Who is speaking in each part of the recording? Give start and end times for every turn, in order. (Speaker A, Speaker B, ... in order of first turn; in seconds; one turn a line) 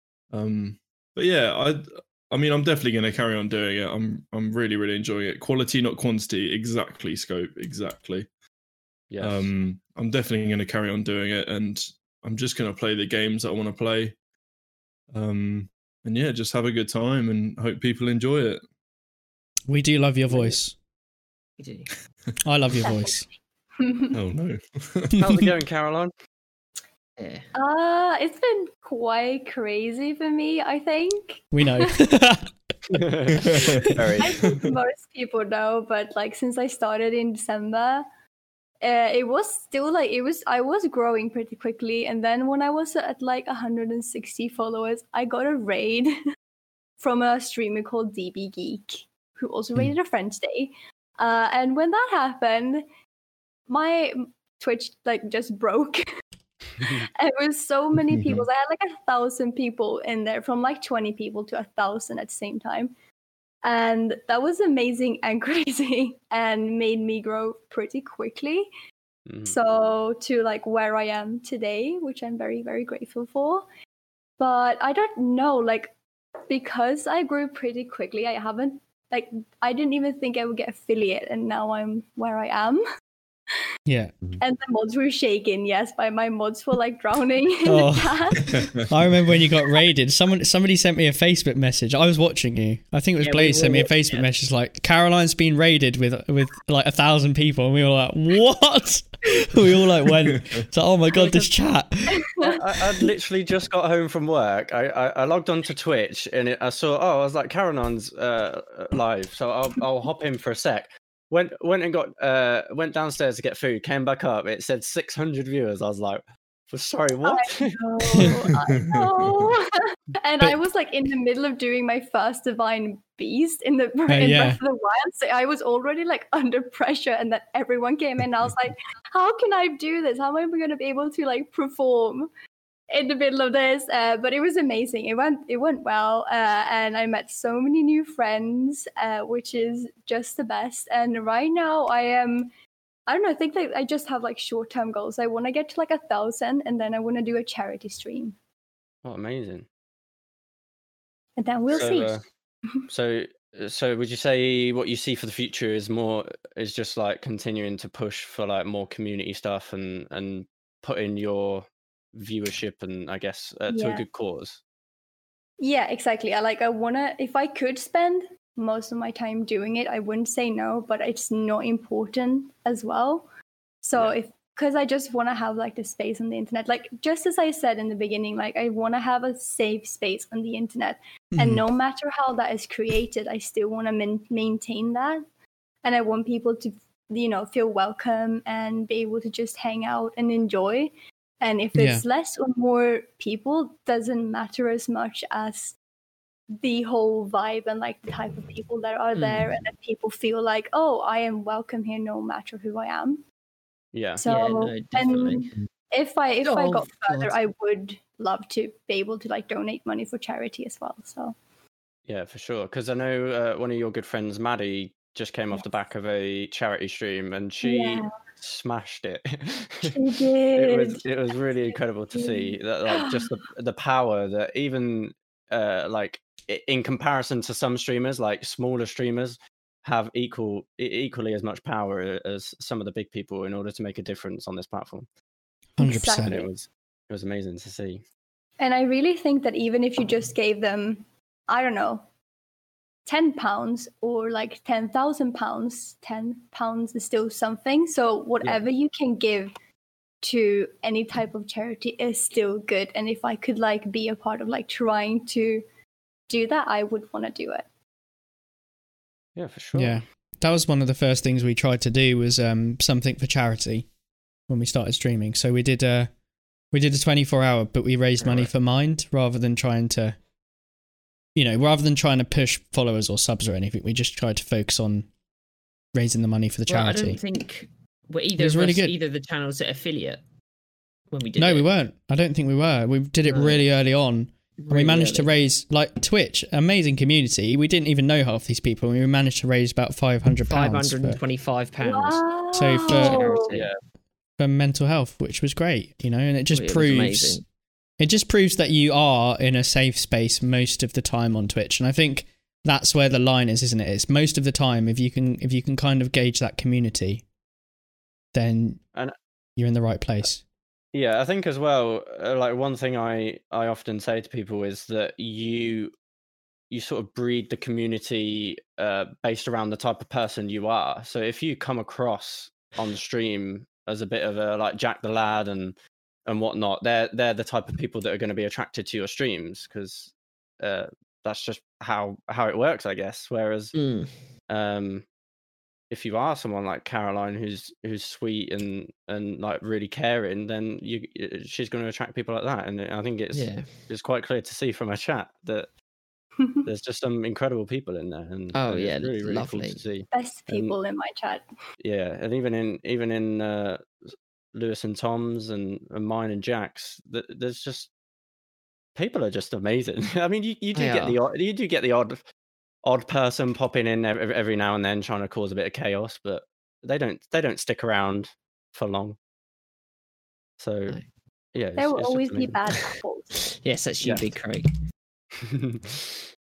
Speaker A: 0.3-8.3
Speaker B: 9.1-9.5
Speaker A: 9.2-14.2
Speaker A: 15.1-18.6
Speaker C: 19.7-20.8
Speaker D: 21.6-21.9
Speaker C: 22.4-23.3
Speaker E: 22.8-23.2
Speaker E: 23.8-24.2
Speaker A: 24.1-25.5
Speaker B: 25.2-26.1
Speaker D: 27.2-27.5
Speaker E: 27.5-31.9
Speaker C: 31.5-32.5
Speaker B: 32.9-34.4
Speaker A: 33.4-34.7
Speaker E: 34.2-38.1
Speaker E: 38.8-46.1
Speaker E: 47.0-52.9
Speaker E: 53.7-56.1
Speaker E: 56.8-62.9
Speaker A: 58.0-58.5
Speaker E: 63.6-68.7
Speaker B: 69.3-69.6
Speaker E: 69.5-73.7
Speaker E: 74.4-76.0
Speaker E: 76.5-82.8
Speaker C: 83.9-84.1
Speaker E: 84.4-88.7
Speaker C: 87.7-102.2
Speaker A: 88.4-88.9
Speaker D: 93.2-94.3
Speaker A: 100.0-100.6
Speaker E: 102.2-102.6
Speaker B: 102.4-117.7
Speaker E: 117.2-132.3
Speaker A: 118.7-119.3
Speaker C: 124.1-124.6
Speaker E: 132.9-142.5
Speaker E: 143.1-148.4
Speaker B: 149.1-149.7
Speaker E: 151.4-152.2
Speaker B: 151.7-152.2
Speaker B: 152.9-164.6
Speaker E: 163.7-164.0
Speaker E: 165.6-173.3
Speaker E: 173.8-185.2
Speaker C: 181.4-181.6
Speaker E: 185.8-195.8
Speaker C: 191.8-192.0
Speaker E: 196.6-203.2
Speaker D: 199.2-199.5
Speaker B: 203.9-204.2
Speaker E: 204.2-211.4
Speaker D: 204.2-205.6
Speaker D: 206.4-207.4
Speaker B: 212.1-220.0
Speaker E: 217.6-218.2
Speaker E: 219.8-223.3
Speaker B: 220.6-235.1
Speaker C: 235.8-236.3
Speaker E: 235.8-236.5
Speaker B: 236.1-238.0
Speaker E: 238.6-242.0
Speaker E: 243.1-249.5
Speaker E: 250.2-255.6
Speaker E: 256.3-257.7
Speaker B: 259.4-260.0
Speaker C: 259.8-263.9
Speaker C: 264.5-266.1
Speaker C: 266.7-270.2
Speaker B: 268.2-268.5
Speaker C: 271.4-275.1
Speaker C: 275.9-277.2
Speaker D: 276.7-280.2
Speaker C: 278.4-278.9
Speaker D: 281.1-281.7
Speaker C: 281.4-291.2
Speaker D: 283.3-283.6
Speaker D: 284.6-285.2
Speaker B: 284.7-284.9
Speaker D: 290.5-292.2
Speaker E: 291.8-293.6
Speaker C: 292.6-293.3
Speaker D: 292.9-293.7
Speaker C: 294.4-297.4
Speaker D: 296.5-297.4
Speaker C: 298.0-307.2
Speaker C: 308.3-308.8
Speaker C: 309.6-310.4
Speaker B: 310.9-315.9
Speaker B: 316.7-333.8
Speaker D: 333.8-334.1
Speaker B: 334.5-335.1
Speaker B: 335.9-345.7
Speaker D: 343.3-343.7
Speaker E: 346.4-346.7
Speaker B: 346.7-350.7
Speaker D: 348.5-349.8
Speaker E: 350.1-351.4
Speaker B: 351.8-357.9
Speaker B: 358.9-362.2
Speaker D: 360.8-361.2
Speaker B: 362.9-369.2
Speaker B: 370.6-371.0
Speaker B: 371.6-372.8
Speaker E: 371.8-373.3
Speaker D: 372.8-374.7
Speaker B: 375.4-376.2